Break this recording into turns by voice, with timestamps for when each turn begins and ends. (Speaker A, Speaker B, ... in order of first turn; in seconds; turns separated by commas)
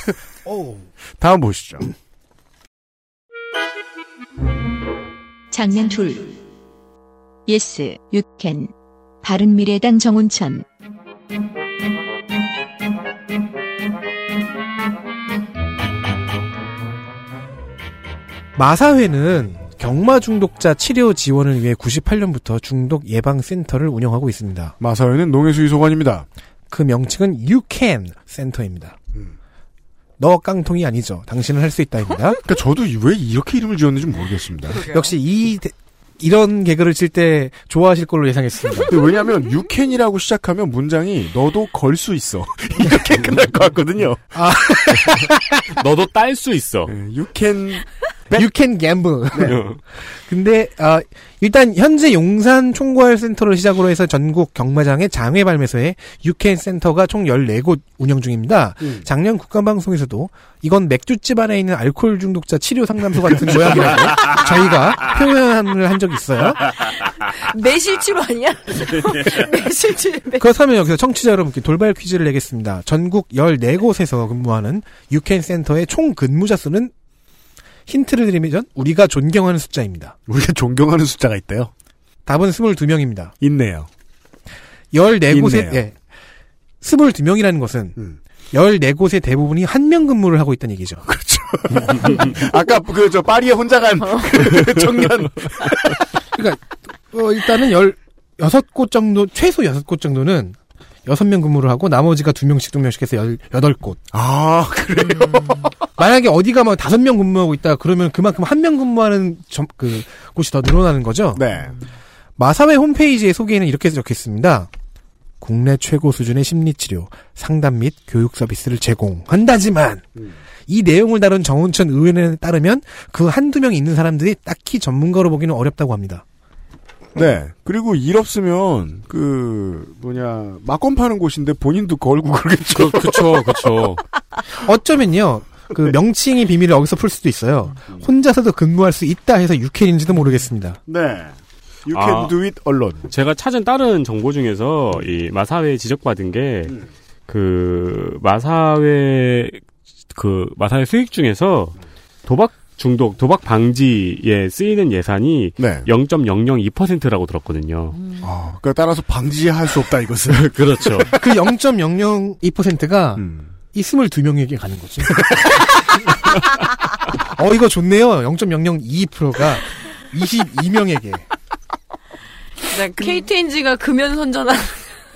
Speaker A: 0.5-0.8, Speaker B: 1.2-1.9, Speaker C: 5.5-6.3, Speaker C: 7.5-8.7, Speaker C: 9.2-10.7, Speaker A: 18.6-24.8, Speaker B: 24.8-26.3, Speaker A: 26.7-29.0, Speaker A: 30.2-32.4, Speaker B: 32.5-34.9, Speaker D: 34.7-35.1, Speaker A: 34.8-39.0, Speaker B: 38.9-45.1, Speaker A: 44.3-45.5, Speaker E: 45.7-46.9, Speaker B: 46.9-48.5, Speaker A: 48.3-66.7, Speaker E: 49.5-49.8, Speaker D: 67.3-70.5, Speaker A: 70.4-76.9, Speaker A: 77.9-80.2, Speaker B: 80.3-81.7, Speaker A: 82.3-83.3, Speaker B: 83.4-83.9, Speaker A: 84.9-86.0, Speaker B: 85.3-85.8, Speaker A: 86.8-88.0, Speaker A: 88.5-91.0, Speaker B: 91.1-96.0, Speaker A: 96.3-104.0, Speaker B: 104.1-105.7, Speaker A: 106.0-111.5, Speaker B: 111.3-111.8, Speaker A: 112.4-114.7, Speaker A: 115.4-120.0, Speaker A: 120.7-126.2, Speaker B: 127.2-133.6, Speaker E: 132.7-134.0, Speaker A: 134.5-140.8, Speaker B: 140.9-141.3, Speaker B: 141.9-143.1, Speaker E: 141.9-142.4, Speaker E: 143.1-146.8, Speaker E: 147.3-149.6, Speaker E: 150.1-158.0, Speaker B: 155.6-155.9, Speaker B: 158.2-161.2, Speaker E: 160.3-161.1, Speaker A: 161.1-165.6, Speaker B: 163.2-163.5, Speaker A: 167.2-171.2, Speaker D: 172.7-174.9